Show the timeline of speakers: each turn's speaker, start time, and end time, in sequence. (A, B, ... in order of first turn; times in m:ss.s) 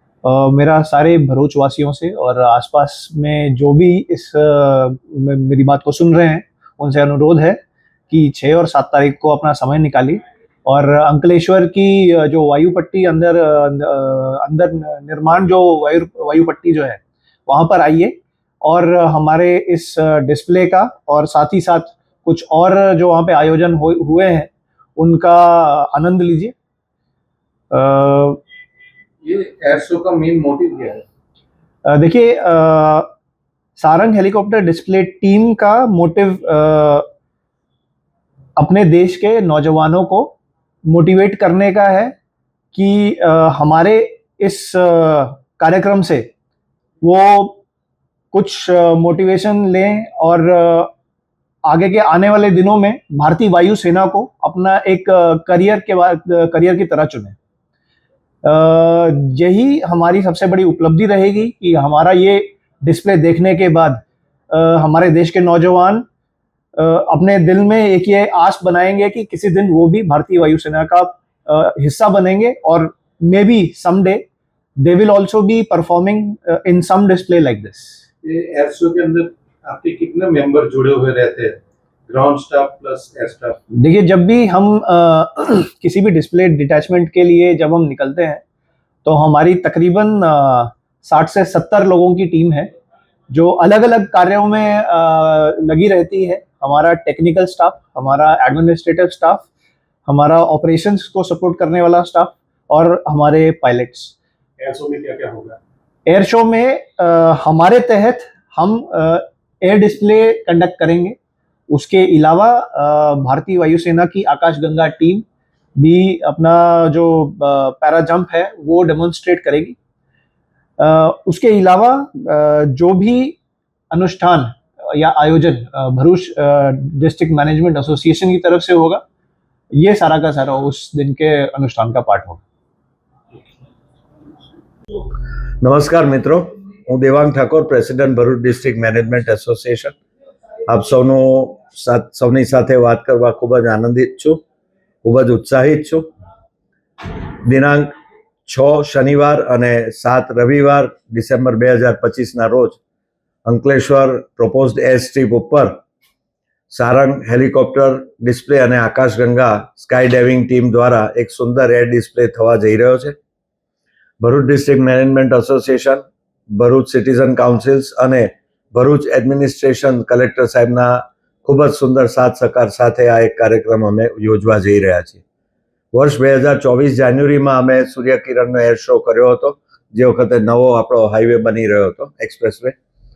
0:00.2-0:26.5 A
0:27.7-0:28.4 A
0:29.2-0:31.0 B
0:31.8-0:33.1 A
0:33.8-0:37.0 A
0:38.6-0:42.1 A
0:42.7-0:46.3 A
0:47.0-0:47.6 A
0:48.3-0:50.9 A
0:51.6-0:57.4 A
0:58.4-1:06.0 A
1:06.8-1:14.2 A
1:14.8-1:18.0 A
1:18.2-1:23.6 B
1:23.7-1:28.4 A
1:29.0-1:32.7 A
1:33.3-1:39.5 A
1:40.0-1:44.1 A
1:44.6-1:45.6 B
1:46.0-1:51.2 A
1:51.7-1:55.2 A
1:55.8-1:59.8 A
2:00.8-2:03.4 A
2:03.9-2:09.0 A
2:09.7-2:12.4 A
2:15.6-2:20.0 C
2:20.7-2:24.4 C
2:25.0-2:26.1 C
2:27.4-2:27.9 C
2:28.5-2:32.8 C
2:33.4-2:35.8 C
2:36.7-2:43.2 C
2:44.2-2:55.2 C
2:55.9-3:02.8 C